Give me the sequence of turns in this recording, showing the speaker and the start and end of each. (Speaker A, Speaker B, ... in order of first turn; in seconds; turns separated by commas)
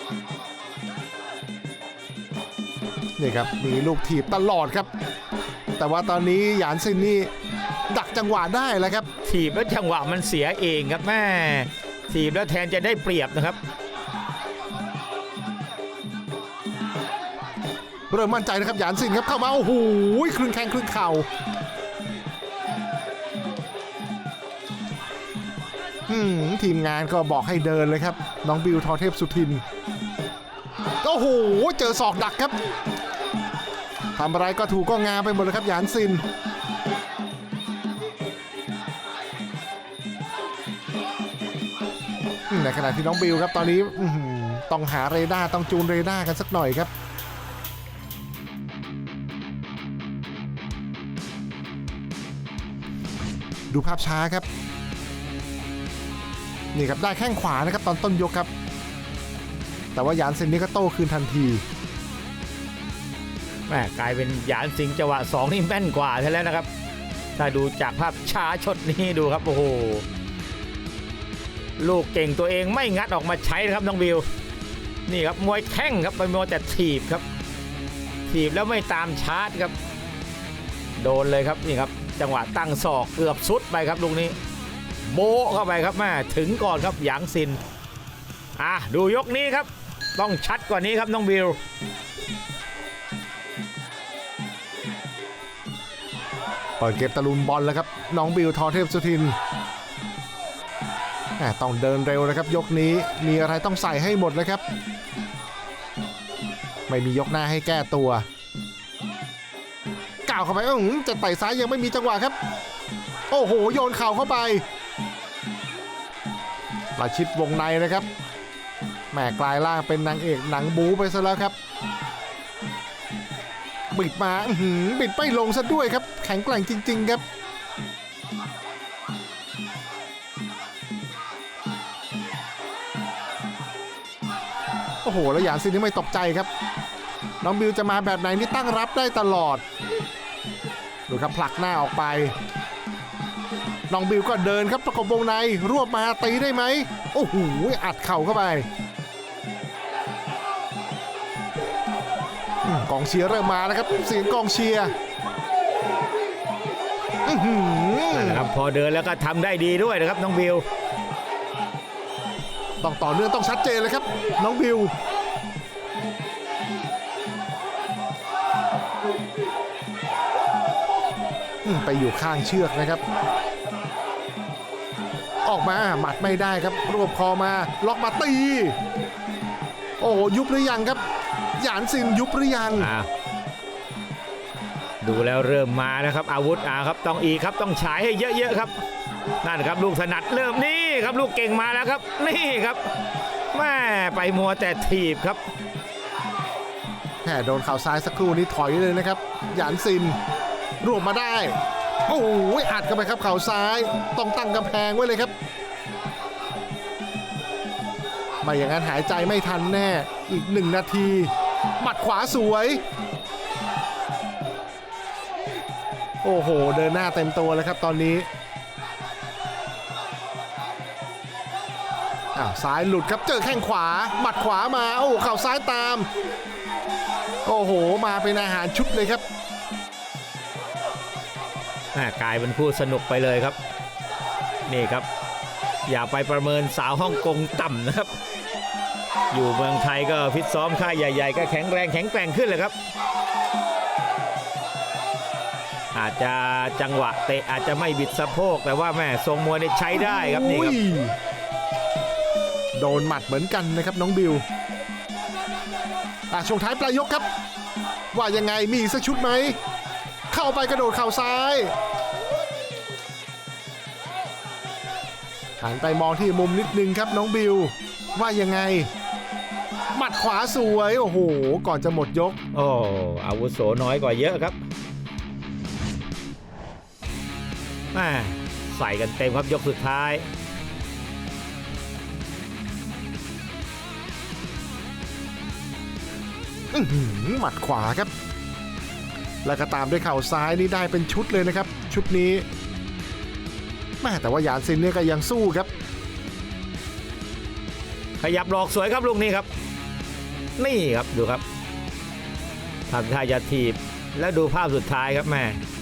Speaker A: 3.2-4.9, Speaker A: 5.8-7.3, Speaker A: 7.9-9.1, Speaker B: 9.2-13.6, Speaker A: 18.1-21.3, Speaker A: 26.1-29.6, Speaker A: 31.0-32.6, Speaker A: 34.2-36.2, Speaker A: 42.5-46.9, Speaker A: 53.7-54.5, Speaker A: 56.7-58.5, Speaker A: 59.9-61.6, Speaker B: 63.7-66.7, Speaker B: 67.4-70.0, Speaker B: 71.8-74.3, Speaker B: 75.1-77.2, Speaker B: 78.3-79.7, Speaker B: 81.0-84.4, Speaker B: 85.0-87.6, Speaker B: 88.6-91.6, Speaker A: 96.8-99.4, Speaker A: 101.4-104.6, Speaker A: 106.9-108.3, Speaker A: 110.3-112.4, Speaker A: 113.3-114.7, Speaker A: 117.0-118.1, Speaker A: 119.1-121.5, Speaker A: 123.9-127.2, Speaker A: 135.0-136.5, Speaker A: 137.4-139.6, Speaker A: 141.1-142.4, Speaker A: 143.9-148.7, Speaker A: 152.6-154.9, Speaker A: 157.2-158.4, Speaker B: 158.1-160.7, Speaker A: 162.8-164.9, Speaker A: 171.6-173.0, Speaker A: 175.4-178.8, Speaker A: 180.0-181.0, Speaker A: 181.6-182.9, Speaker B: 182.8-183.1, Speaker B: 185.0-188.8, Speaker B: 189.4-192.9, Speaker B: 193.5-195.4, Speaker A: 197.2-200.2, Speaker A: 200.8-205.3, Speaker A: 208.4-212.8, Speaker A: 216.2-218.3, Speaker A: 222.3-226.1, Speaker A: 227.4-229.2, Speaker B: 231.9-233.6, Speaker B: 234.7-235.1, Speaker B: 235.9-238.2, Speaker B: 239.3-242.7, Speaker B: 245.9-250.8, Speaker A: 249.9-251.1, Speaker A: 252.8-254.4, Speaker A: 256.3-257.2, Speaker A: 258.1-259.6, Speaker A: 260.3-261.7, Speaker A: 265.6-268.9, Speaker A: 269.9-272.4, Speaker B: 272.5-274.6, Speaker B: 277.9-280.3, Speaker A: 286.7-288.1, Speaker A: 289.4-292.4, Speaker A: 294.0-295.7, Speaker B: 298.2-299.5, Speaker B: 300.6-301.4, Speaker B: 302.9-305.6